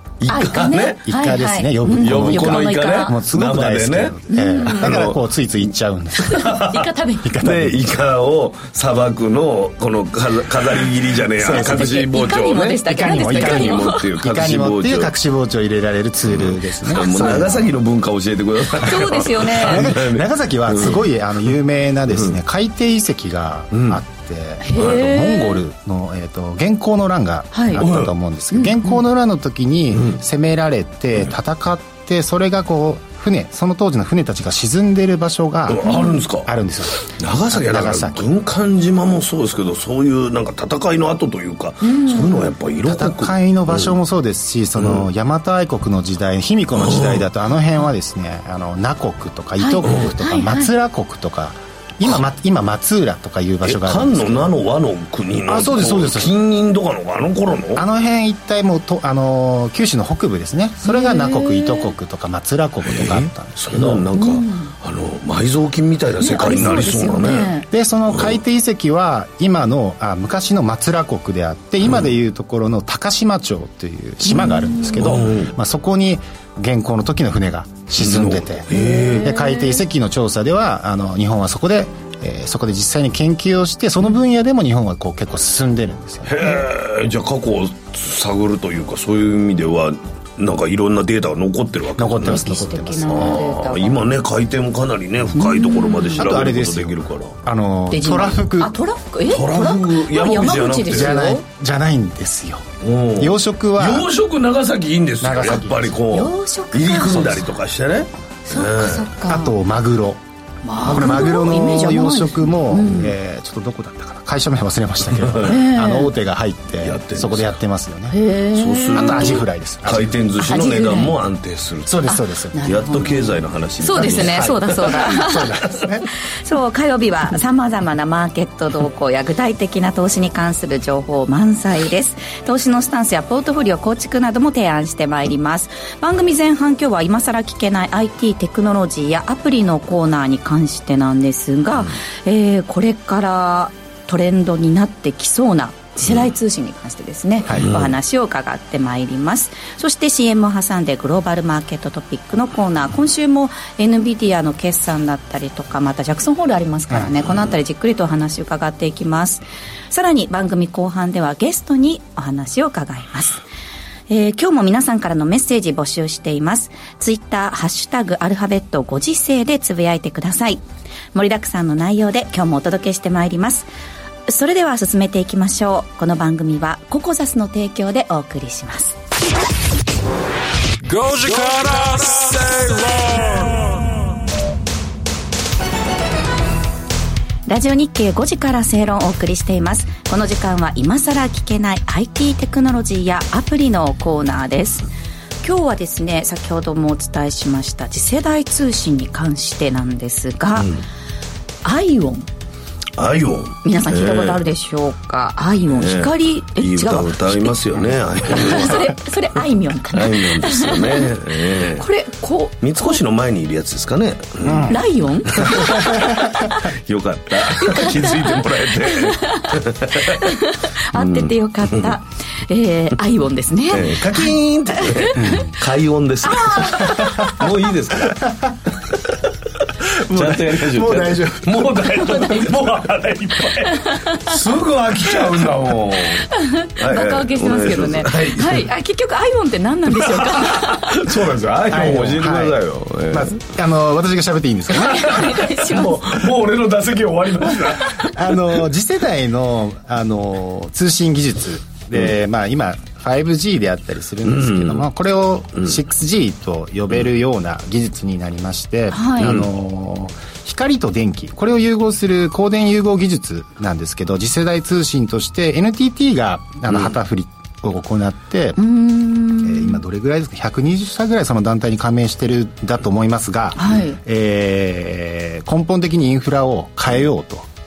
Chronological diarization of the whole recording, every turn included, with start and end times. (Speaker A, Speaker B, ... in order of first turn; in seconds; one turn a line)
Speaker A: 0.2-1.0
Speaker B: 0.3-3.1
Speaker C: 1.0-6.5
Speaker A: 2.0-4.2
Speaker B: 4.3-4.9
Speaker A: 4.8-5.2
Speaker B: 6.2-7.3
Speaker A: 6.3-15.1
Speaker C: 7.2-8.0
Speaker C: 11.4-12.0
Speaker B: 11.6-14.0
Speaker C: 12.8-17.7
Speaker A: 16.3-21.1
Speaker B: 17.0-17.5
Speaker B: 18.7-19.8
Speaker C: 19.6-35.9
Speaker A: 23.7-24.0
Speaker B: 24.6-25.6
Speaker B: 27.5-27.8
Speaker A: 27.8-28.1
Speaker B: 28.5-28.9
Speaker A: 35.7-36.5
Speaker B: 35.8-36.2
Speaker C: 36.4-38.2
Speaker A: 37.1-43.9
Speaker B: 41.8-42.5
Speaker C: 42.8-54.5
Speaker A: 44.8-45.0
Speaker A: 46.8-47.2
Speaker B: 49.6-50.7
Speaker A: 49.8-50.1
Speaker A: 53.6-57.8
Speaker C: 55.5-56.4
Speaker C: 57.8-64.0
Speaker B: 60.8-61.9
Speaker A: 62.8-67.5
Speaker B: 64.2-64.7
Speaker B: 66.2-67.7
Speaker C: 67.7-86.6
Speaker B: 74.2-75.0
Speaker A: 75.0-75.5
Speaker A: 78.0-79.3
Speaker B: 78.7-79.8
Speaker A: 86.2-92.4
Speaker C: 92.0-93.4
Speaker B: 92.3-94.0
Speaker A: 93.0-97.3
Speaker B: 95.3-96.3
Speaker C: 96.2-98.8
Speaker B: 97.9-101.4
Speaker A: 99.3-101.2
Speaker C: 100.8-102.6
Speaker A: 102.8-109.1
Speaker C: 103.2-104.1
Speaker C: 105.2-106.0
Speaker B: 106.1-107.6
Speaker B: 108.5-109.5
Speaker C: 109.3-110.2
Speaker B: 110.6-113.1
Speaker C: 110.8-118.2
Speaker A: 115.2-115.5
Speaker B: 115.5-116.1
Speaker A: 116.8-117.5
Speaker B: 118.1-119.4
Speaker A: 118.5-122.0
Speaker C: 118.9-120.2
Speaker B: 120.4-121.2
Speaker C: 121.8-122.6
Speaker B: 122.1-125.5
Speaker A: 122.6-125.1
Speaker C: 123.9-126.1
Speaker B: 126.4-163.4
Speaker A: 147.6-147.9
Speaker C: 156.9-157.3
Speaker B: 164.1-170.6
Speaker B: 171.1-173.7
Speaker B: 174.3-178.9
Speaker D: 180.8-183.8
Speaker B: 187.5-194.8
Speaker B: 195.4-200.7
Speaker A: 200.6-200.8
Speaker B: 201.6-202.3
Speaker A: 203.0-204.4
Speaker B: 203.6-207.6
Speaker A: 205.8-208.9
Speaker B: 208.2-211.1
Speaker A: 209.9-211.8
Speaker B: 211.7-213.0
Speaker A: 212.6-214.8
Speaker C: 214.4-214.8
Speaker B: 214.7-216.6
Speaker A: 215.3-216.3
Speaker C: 215.4-216.2
Speaker A: 216.9-220.2
Speaker B: 217.5-225.3
Speaker A: 220.9-221.9
Speaker A: 223.7-228.2
Speaker C: 225.1-225.5
Speaker B: 226.3-227.1
Speaker C: 226.9-227.4
Speaker C: 228.1-228.5
Speaker C: 230.0-232.4
Speaker A: 230.1-238.7
Speaker B: 233.8-234.3
Speaker B: 236.2-241.0
Speaker A: 240.1-243.4
Speaker C: 241.7-245.4
Speaker B: 244.7-245.9
Speaker A: 245.1-248.4
Speaker C: 248.0-268.6
Speaker A: 254.2-254.8
Speaker B: 258.9-259.3
Speaker A: 259.2-259.5
Speaker B: 268.6-269.8
Speaker C: 269.4-277.5
Speaker B: 273.6-274.0